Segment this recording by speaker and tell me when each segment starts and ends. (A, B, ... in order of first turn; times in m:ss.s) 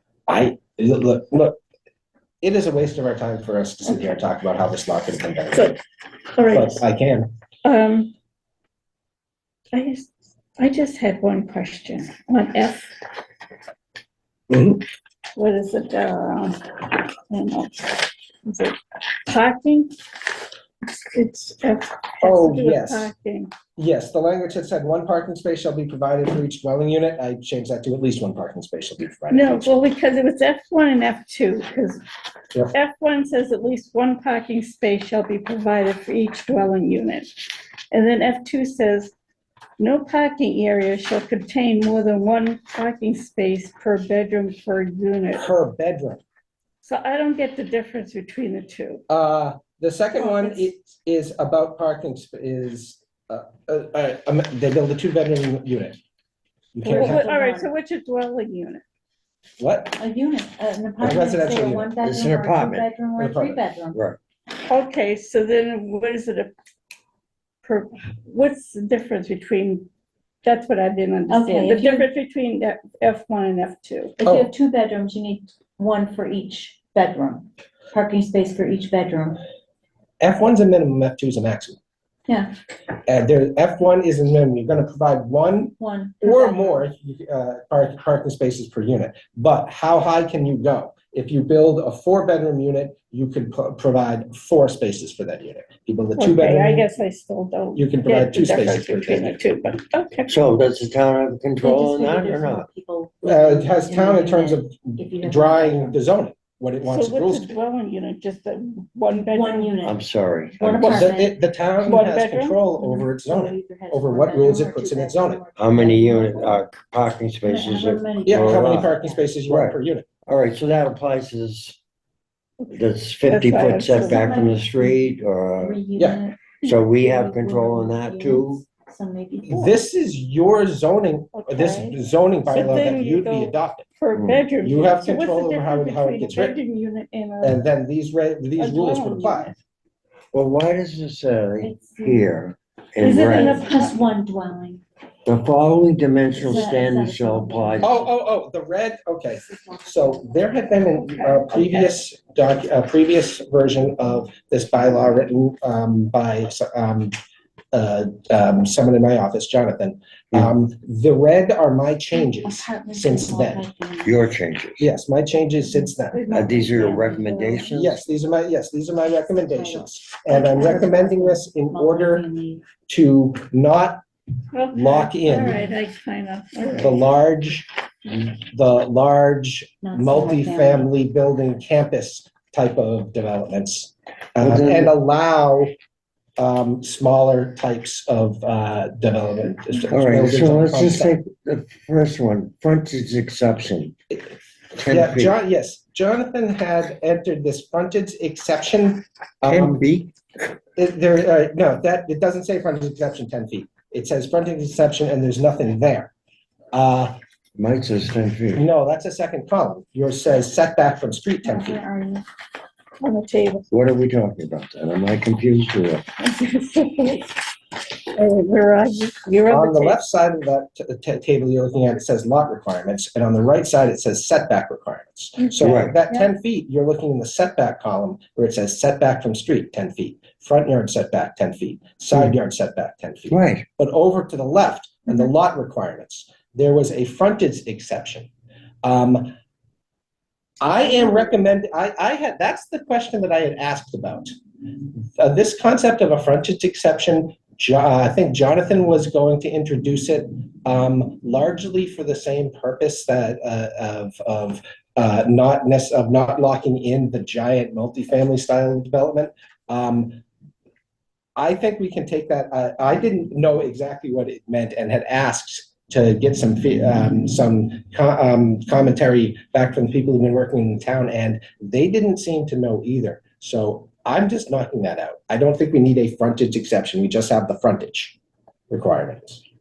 0:00.3-0:01.6 A
0:02.4-0:05.8 A
0:05.5-0:05.8 B
0:06.3-0:06.8 B
0:06.5-0:07.3 A
0:07.6-0:08.1 B
0:09.7-0:13.0 B
0:14.5-0:14.8 A
0:15.4-0:19.9 B
0:20.8-0:23.5 B
0:22.2-0:23.1 A
0:23.8-0:29.7 A
0:29.3-0:32.0 B
0:32.7-0:39.1 B
0:39.8-0:45.5 B
0:45.4-0:46.2 A
0:46.8-0:49.0 B
0:49.1-0:56.0 A
0:50.2-0:50.7 C
0:56.7-0:57.2 A
0:56.8-0:58.8 B
0:56.9-0:57.7 C
0:59.6-1:00.0 A
1:00.0-1:04.0 C
1:01.0-1:01.9 A
1:02.0-1:02.9 D
1:03.2-1:03.6 A
1:03.9-1:04.2 D
1:04.6-1:06.5 B
1:07.6-1:09.9 B
1:10.4-1:14.1 B
1:11.3-1:12.1 C
1:14.2-1:19.4 C
1:14.2-1:14.5 A
1:20.2-1:21.8 A
1:22.3-1:22.5 C
1:23.1-1:36.8 A
1:25.8-1:26.8 C
1:36.2-1:40.3 B
1:37.7-1:39.4 A
1:40.3-1:42.7 D
1:41.6-1:46.0 C
1:43.2-1:47.5 A
1:46.8-1:49.7 B
1:49.1-1:50.0 C
1:49.8-1:51.1 D
1:50.6-1:51.4 C
1:50.8-1:55.4 A
1:51.8-1:52.6 B
1:52.8-1:56.6 C
1:55.6-1:58.9 D
1:57.4-1:59.2 C
1:58.3-2:00.1 A
1:59.5-2:01.8 D
2:02.7-2:05.8 D
2:03.2-2:04.4 B
2:03.9-2:09.7 C
2:06.0-2:06.2 A
2:06.6-2:08.6 D
2:09.4-2:13.8 A
2:11.3-2:12.0 B
2:12.5-2:17.6 B
2:14.1-2:14.4 D
2:14.6-2:16.6 A
2:17.4-2:19.5 A
2:18.6-2:19.6 B
2:20.3-2:23.6 D
2:21.6-2:22.3 C
2:23.0-2:24.0 B
2:23.2-2:24.8 C
2:25.2-2:28.0 D
2:26.3-2:28.1 C
2:27.8-2:37.2 A
2:29.4-2:30.7 C
2:31.0-2:31.9 B
2:37.7-2:43.7 A
2:42.1-2:44.3 C
2:44.0-2:44.8 D
2:44.8-2:46.2 A
2:46.1-2:46.9 B
2:46.1-2:47.8 C
2:46.3-2:48.0 D
2:47.7-2:52.3 A
2:49.4-2:52.6 C
2:52.9-2:54.0 A
2:54.5-2:57.0 B
2:54.7-2:55.6 A
2:56.8-3:05.7 A
2:59.8-3:00.9 C
3:04.4-3:04.9 D
3:06.4-3:11.1 A
3:09.9-3:13.9 D
3:14.8-3:15.3 D
3:14.8-3:19.8 A
3:19.4-3:20.1 D
3:20.8-3:26.1 A
3:26.7-3:27.2 A
3:27.6-3:28.6 D
3:28.5-3:31.8 A
3:31.4-3:32.2 C
3:33.0-3:33.7 B
3:33.7-3:36.0 D
3:36.2-3:37.5 B
3:38.1-3:40.0 B
3:39.5-3:58.3 A
3:45.6-3:46.0 D
3:53.3-3:53.6 D
3:58.8-3:59.3 A
4:00.6-4:20.2 A
4:21.4-4:38.2 A
4:38.7-4:39.4 A